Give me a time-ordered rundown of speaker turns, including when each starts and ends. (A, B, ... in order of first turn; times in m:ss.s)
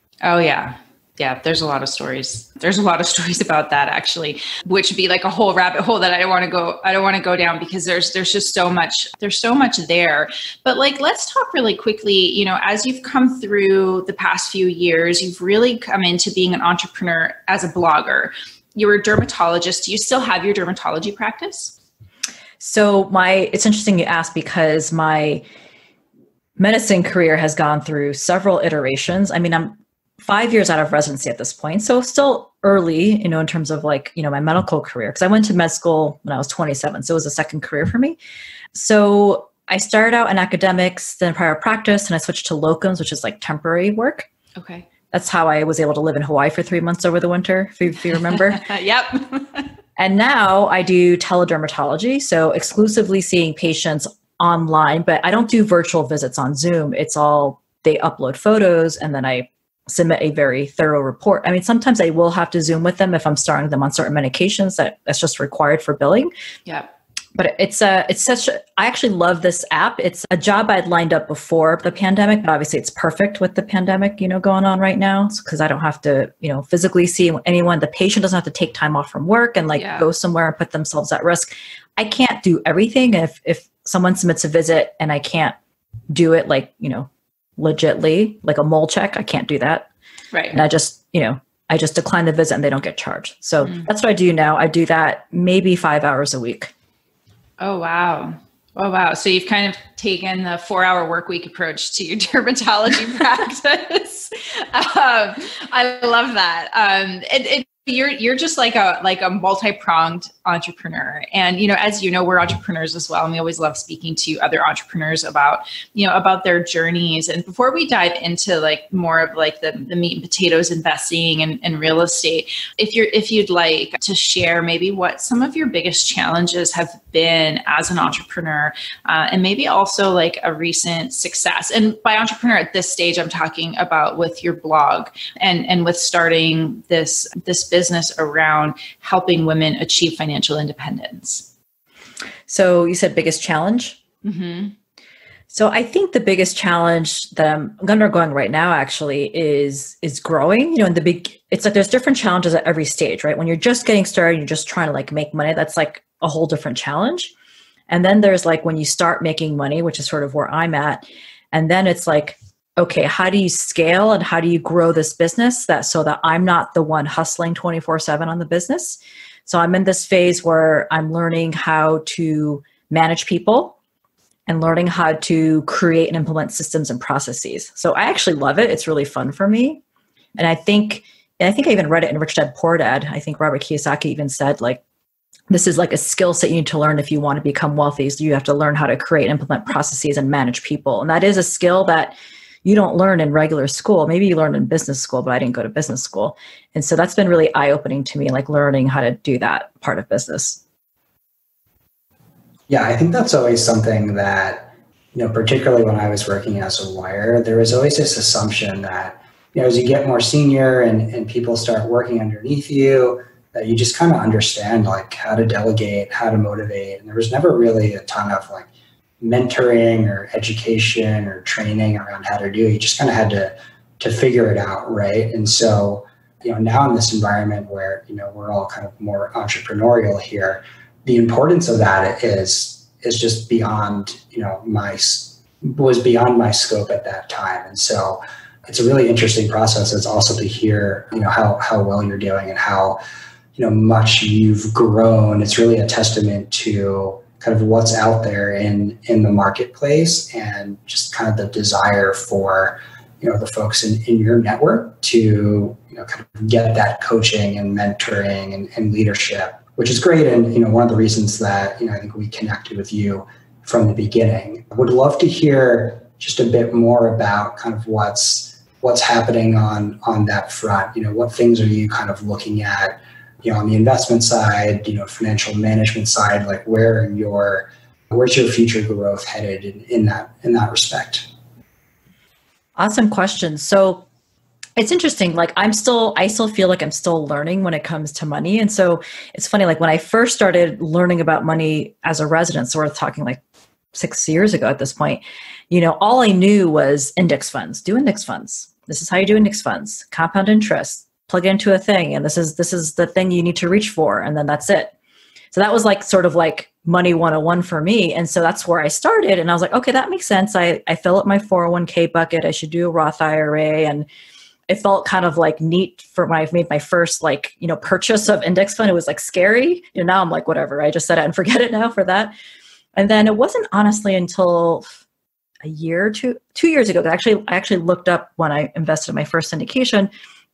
0:00.2-0:21.7 A
0:22.6-0:25.4 B
0:26.6-0:38.2 B
0:38.7-0:44.3 B
0:44.6-0:44.9 A
0:45.1-0:48.6 B
0:48.3-0:49.7 A
0:50.0-1:06.3 B
1:06.6-1:06.9 A
1:07.3-1:25.6 B
1:19.8-1:20.1 A
1:26.1-1:29.9 B
1:30.3-1:30.6 A
1:30.5-1:36.7 B
1:33.6-1:33.9 A
1:37.6-2:21.5 A
2:22.5-2:24.0 B
2:24.2-2:24.7 A
2:25.5-2:37.3 B
2:37.9-2:53.8 B
2:54.5-2:59.8 B
3:00.4-3:04.8 B
3:05.5-3:20.6 B
3:22.7-3:38.7 C
3:39.2-4:03.0 C
4:03.6-4:41.3 C
4:42.8-4:44.0 B
4:44.8-4:53.4 B
4:53.9-5:04.9 B
5:05.5-5:14.1 B
5:14.7-5:22.3 B
5:22.9-5:24.9 B
5:25.6-5:30.1 B